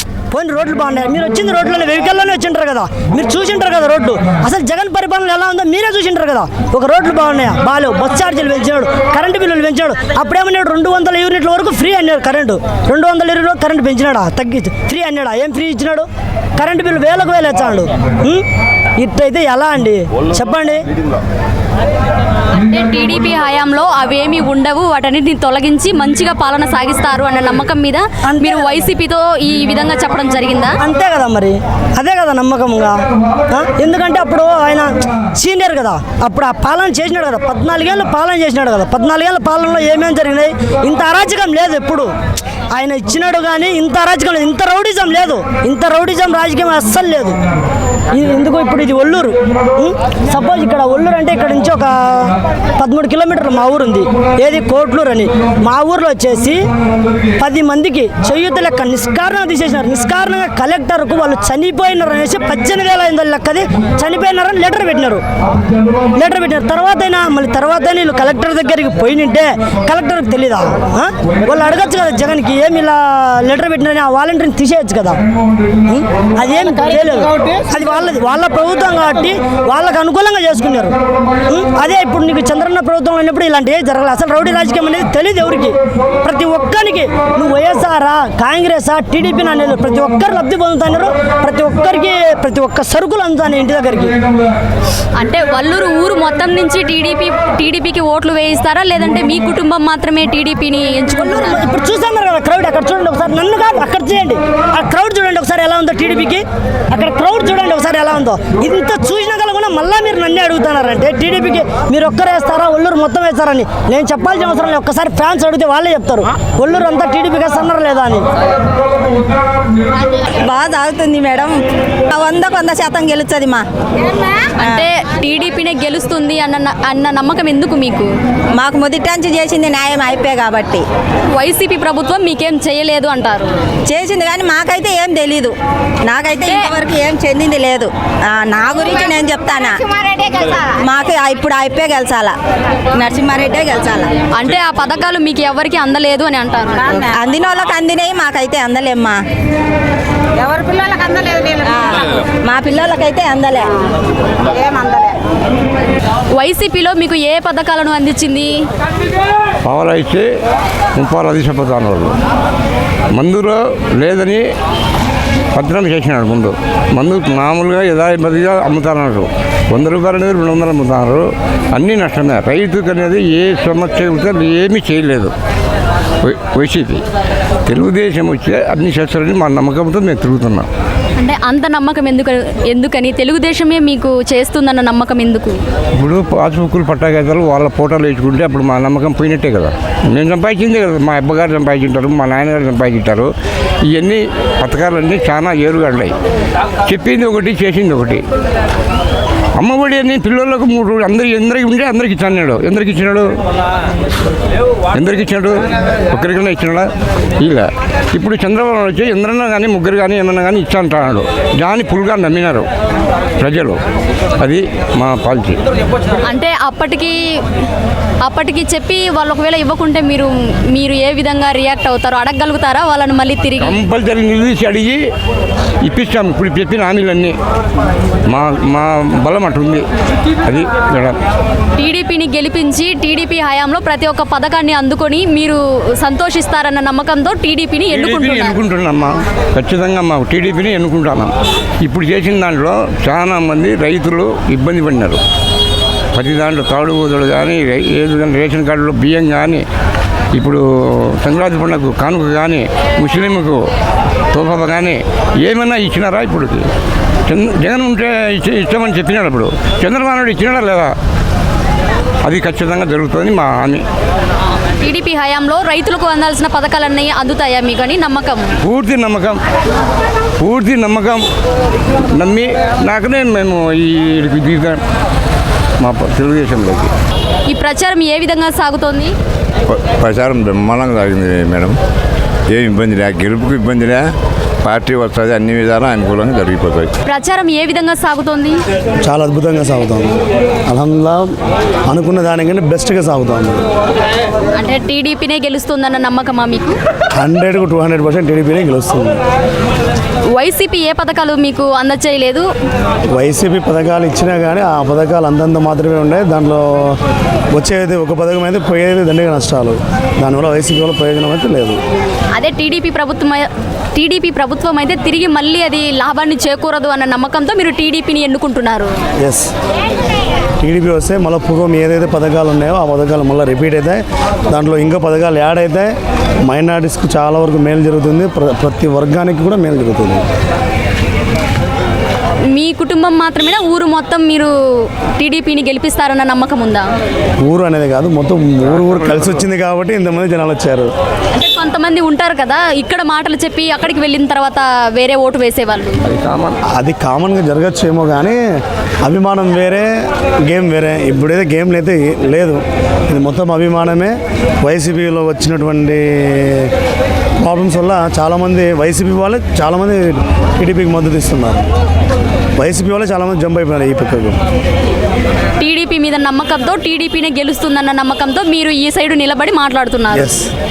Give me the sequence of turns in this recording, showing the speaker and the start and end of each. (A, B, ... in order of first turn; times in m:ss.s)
0:00.3-0:16.0 A
0:16.6-0:18.4 A
0:19.0-0:20.8 A
0:22.6-0:30.8 B
0:28.3-0:28.6 A
0:30.8-0:33.0 A
0:33.5-0:42.1 A
0:42.7-0:47.4 A
0:48.1-0:52.3 A
0:52.8-0:56.6 A
0:57.4-1:05.2 A
1:06.2-1:15.2 A
1:15.9-1:20.9 A
1:21.5-1:34.1 A
1:35.2-1:41.6 B
1:41.2-1:58.2 A
2:00.2-2:01.6 C
2:02.1-2:03.6 C
2:04.6-2:08.1 B
2:08.6-2:10.8 C
2:11.3-2:13.5 B
2:13.9-2:15.5 C
2:16.0-2:19.8 C
2:16.4-2:16.7 B
2:20.7-2:22.3 C
2:22.9-2:24.1 C
2:24.3-2:26.8 B
2:26.8-2:29.2 C
2:30.4-2:33.7 C
2:34.5-2:35.0 C
2:36.3-2:38.5 B
2:39.6-2:40.2 D
2:41.0-2:42.1 D
2:43.1-2:44.4 D
2:45.5-2:55.3 D
2:56.2-2:57.0 D
2:57.6-3:00.7 D
3:01.2-3:05.6 B
3:06.0-3:13.3 D
3:13.9-3:16.1 D
3:16.8-3:18.2 D
3:19.6-3:23.3 D
3:24.9-3:26.9 D
3:27.4-3:32.7 D
3:33.4-3:33.8 D
3:34.4-3:35.6 D
3:36.3-3:37.2 B
3:38.2-3:43.8 B
3:43.6-3:45.0 D
3:45.8-3:47.3 D
3:48.3-3:49.8 D
3:50.4-3:51.2 D
3:51.8-3:58.6 B
3:57.9-4:01.3 D
4:01.8-4:05.2 D
4:06.1-4:09.6 D
4:10.3-4:13.6 D
4:14.3-4:16.6 D
4:17.3-4:20.9 D
4:22.2-4:23.8 D
4:24.8-4:28.5 B
4:28.6-4:29.4 D
4:30.4-4:31.2 D
4:32.1-4:34.8 D
4:35.8-4:36.9 D
4:37.5-4:39.1 B
4:39.7-4:41.8 E
4:42.5-4:44.1 E
4:44.6-4:46.9 E
4:47.0-4:48.6 B
4:49.0-4:51.3 F
4:51.9-4:53.6 F
4:54.5-4:56.8 B
4:57.2-4:59.2 F
5:00.3-5:02.5 B
5:03.1-5:07.0 F
5:07.5-5:11.8 F
5:12.3-5:18.9 B
5:19.2-5:19.5 F
5:20.6-5:25.9 F
5:26.4-5:30.2 F
5:32.5-5:36.9 B
5:37.4-5:40.9 F
5:38.7-5:39.4 D
5:41.3-5:46.0 B
5:46.0-5:46.6 D
5:46.8-5:48.4 F
5:49.0-5:49.9 F
5:50.5-5:56.7 F
5:57.4-6:01.7 F
6:02.6-6:04.4 F
6:05.6-6:10.3 B
6:10.1-6:10.5 F